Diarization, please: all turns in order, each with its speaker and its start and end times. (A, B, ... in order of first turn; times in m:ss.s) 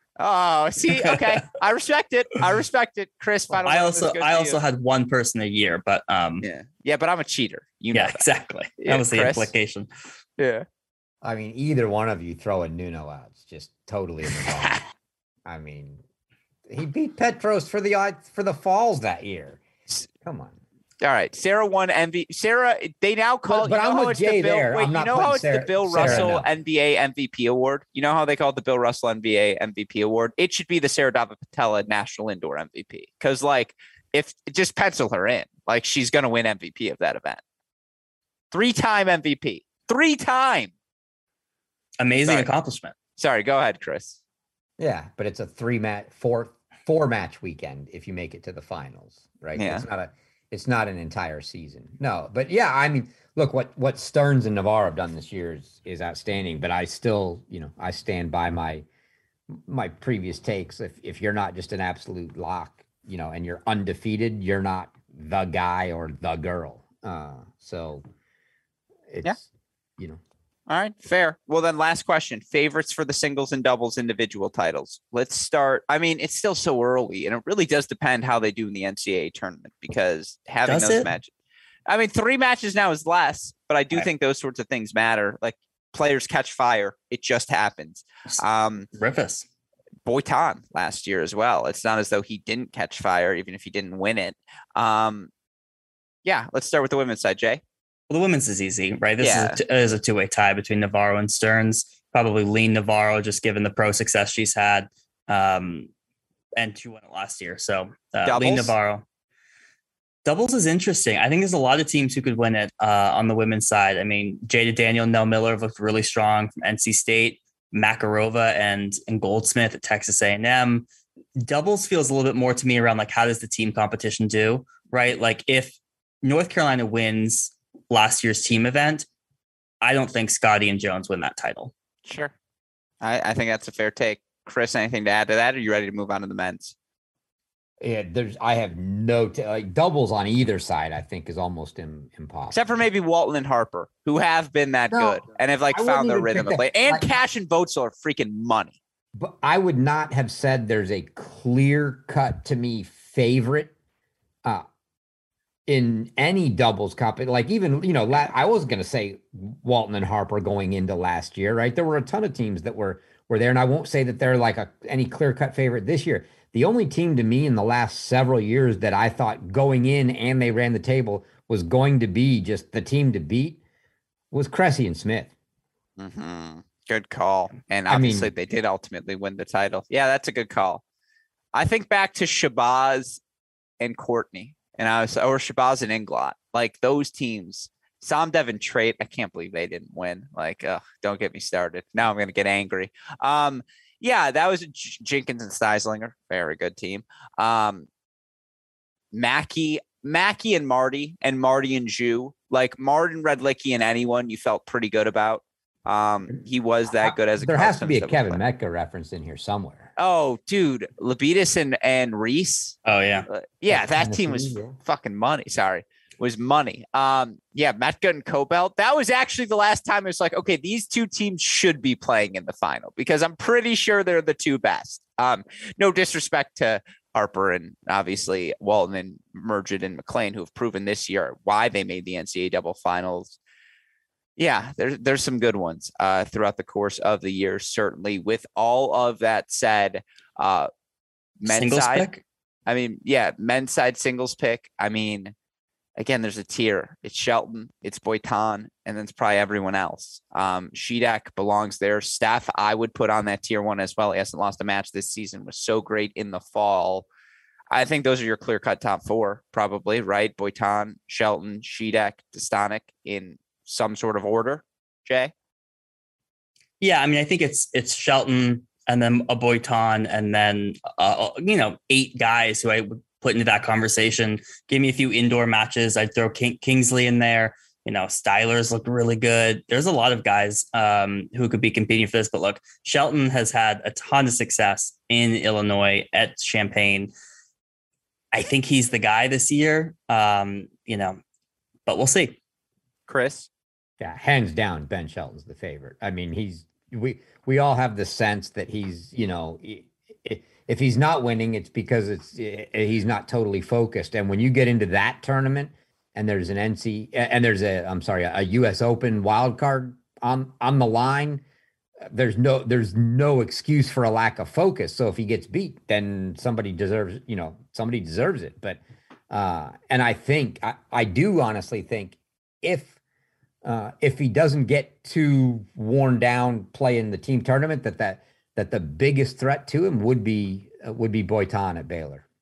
0:00.2-0:04.6 A
0:03.6-0:06.4 B
0:06.4-0:08.3 A
0:07.9-0:09.9 B
0:08.8-0:09.5 A
0:10.4-0:10.7 A
0:11.2-0:14.8 C
0:15.4-0:16.0 C
0:16.7-0:19.6 C
0:20.2-0:20.6 C
0:21.0-0:37.4 A
0:23.5-0:26.5 C
0:26.0-0:26.4 B
0:38.5-0:40.7 A
0:42.0-0:42.9 B
0:42.2-0:42.5 A
0:43.2-0:44.2 A
0:44.8-0:58.8 C
0:49.6-0:49.9 A
0:59.5-1:08.0 C
1:09.1-1:09.5 C
1:10.7-1:21.3 A
1:20.7-1:21.1 B
1:21.9-1:28.9 A
1:28.3-1:29.4 B
1:30.1-1:35.3 A
1:36.2-1:37.6 A
1:38.1-1:45.9 B
1:39.2-1:39.6 A
1:46.6-1:49.0 B
1:48.2-1:48.8 A
1:50.2-2:09.1 B
2:09.8-2:11.7 B
2:12.0-2:12.3 A
2:13.0-2:16.8 A
2:17.8-2:22.7 C
2:22.5-2:28.8 A
2:24.9-2:27.1 C
2:29.2-2:33.7 C
2:35.7-2:53.6 C
2:54.3-2:55.3 C
2:56.0-3:00.8 A
2:57.9-2:58.3 C
3:01.5-3:03.2 A
3:03.8-3:17.9 A
3:19.1-3:28.4 A
3:26.9-3:29.9 C
3:30.0-3:53.4 A
3:32.9-3:33.3 B
3:33.7-3:34.8 C
3:54.4-4:00.7 A
4:01.4-4:02.1 A
4:01.5-4:02.2 B
4:02.7-4:05.4 A
4:06.0-4:17.1 A
4:17.7-4:25.3 A
4:26.8-4:47.1 B
4:48.3-4:51.2 B
4:51.9-4:52.4 B
4:53.1-4:53.5 A
4:54.0-5:11.4 C
5:12.0-5:23.0 C
5:23.6-5:32.2 C